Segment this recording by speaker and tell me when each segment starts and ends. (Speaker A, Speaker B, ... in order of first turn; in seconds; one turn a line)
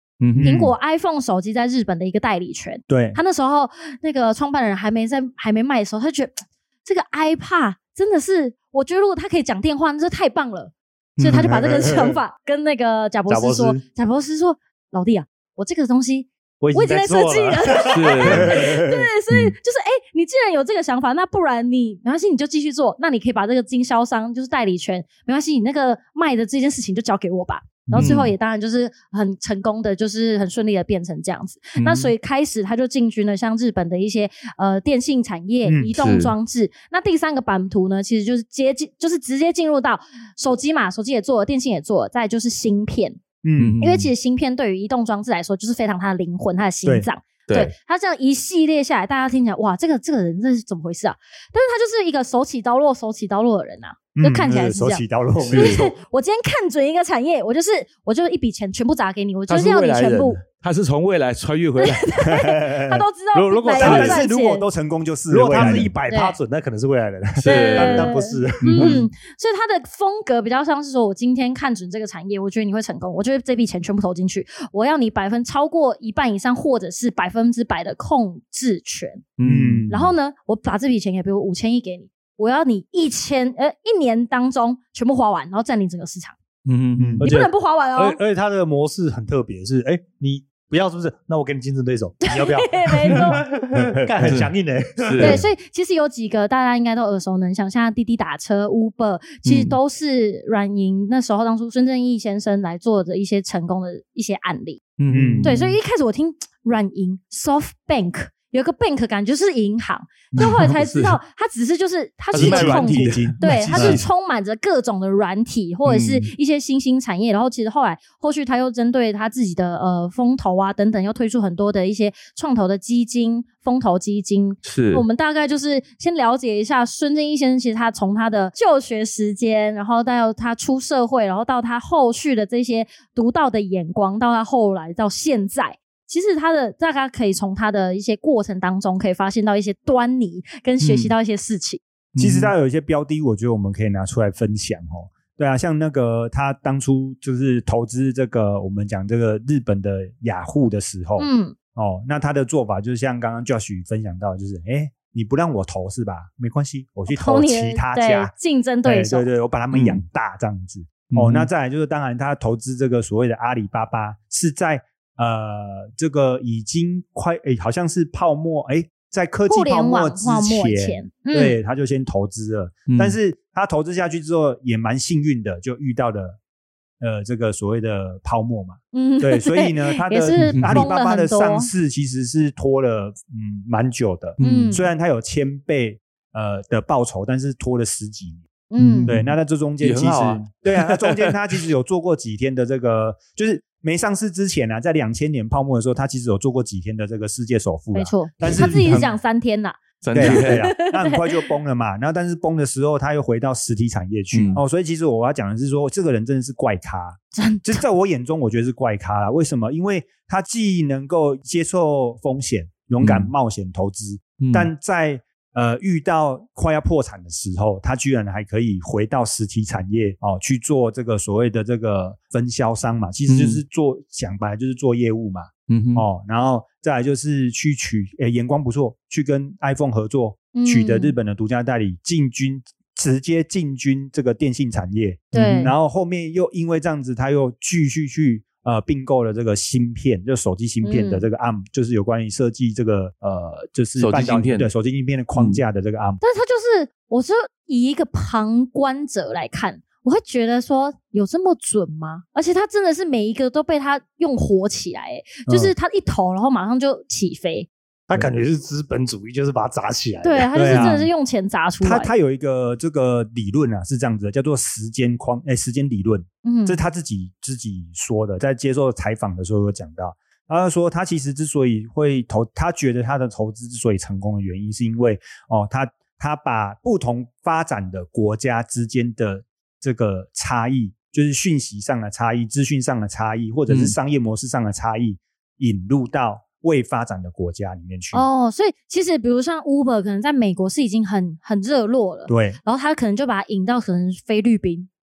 Speaker A: 0.2-0.7
Speaker B: 0.3-0.7
Speaker C: 0.4-43.3
Speaker B: 2.9-3.2
Speaker A: 11.2-11.6
Speaker B: 11.3-12.2
Speaker D: 13.3-13.8
Speaker D: 16.6-18.2
Speaker A: 17.9-18.7
Speaker B: 18.2-18.9
Speaker B: 27.9-28.2
Speaker A: 27.9-28.3
Speaker A: 31.8-32.1
Speaker B: 35.6-35.9
Speaker A: 36.0-36.3
Speaker B: 43.4-43.8
Speaker A: 43.6-44.1
Speaker C: 43.8-60.4
Speaker B: 46.8-47.1
Speaker A: 47.5-47.7
Speaker B: 54.2-55.9
Speaker A: 55.5-55.9
Speaker A: 59.5-62.1
Speaker C: 61.8-64.7
Speaker B: 62.2-63.0
Speaker D: 63.3-64.2
Speaker A: 63.8-64.1
Speaker B: 63.8-65.9
Speaker D: 65.3-69.0
Speaker A: 65.6-65.9
Speaker C: 65.9-66.4
Speaker A: 67.4-69.0
Speaker C: 67.4-79.3
Speaker A: 79.4-80.1
Speaker B: 79.4-80.0
Speaker C: 79.9-86.4
Speaker A: 86.7-87.2
Speaker B: 87.0-87.3
Speaker D: 87.2-95.4
Speaker C: 87.2-88.2
Speaker C: 92.3-93.4
Speaker A: 94.2-94.5
Speaker A: 95.0-95.4
Speaker C: 95.2-141.8
Speaker A: 99.5-99.8
Speaker A: 105.0-105.8
Speaker B: 105.1-105.6
Speaker B: 110.3-110.6
Speaker A: 110.4-111.2
Speaker A: 112.3-114.0
Speaker B: 112.3-114.0
Speaker A: 115.9-116.3
Speaker A: 124.6-125.1
Speaker A: 140.8-141.1
Speaker A: 142.1-142.5
Speaker B: 142.2-158.3
Speaker C: 151.2-151.6
Speaker C: 157.1-159.3
Speaker B: 158.8-176.4
Speaker A: 159.7-160.0
Speaker A: 161.1-161.5
Speaker C: 169.5-171.6
Speaker A: 172.9-173.2
Speaker B: 177.0-188.4
Speaker C: 178.9-181.7
Speaker A: 180.3-180.9
Speaker A: 184.4-184.8
Speaker C: 184.4-184.9
Speaker C: 188.7-189.2
Speaker A: 188.8-191.4
Speaker B: 189.1-199.1
Speaker C: 197.9-201.5
Speaker A: 198.6-199.0
Speaker A: 200.0-200.8
Speaker B: 200.1-246.2
Speaker A: 204.3-204.6
Speaker C: 207.3-207.8
Speaker A: 213.0-213.3
Speaker A: 214.4-214.7
Speaker A: 223.3-223.6
Speaker A: 225.7-226.1
Speaker C: 230.5-231.2
Speaker C: 235.3-235.7
Speaker A: 235.3-235.7
Speaker C: 240.8-241.3
Speaker A: 244.0-244.7
Speaker A: 245.3-245.6
Speaker C: 246.2-257.7
Speaker B: 255.5-255.7
Speaker D: 258.1-260.9
Speaker B: 258.1-258.4
Speaker C: 260.2-262.1
Speaker B: 260.6-261.1
Speaker B: 261.8-288.2
Speaker C: 266.4-266.8
Speaker A: 283.7-283.9
Speaker C: 288.1-294.9
Speaker B: 292.3-292.6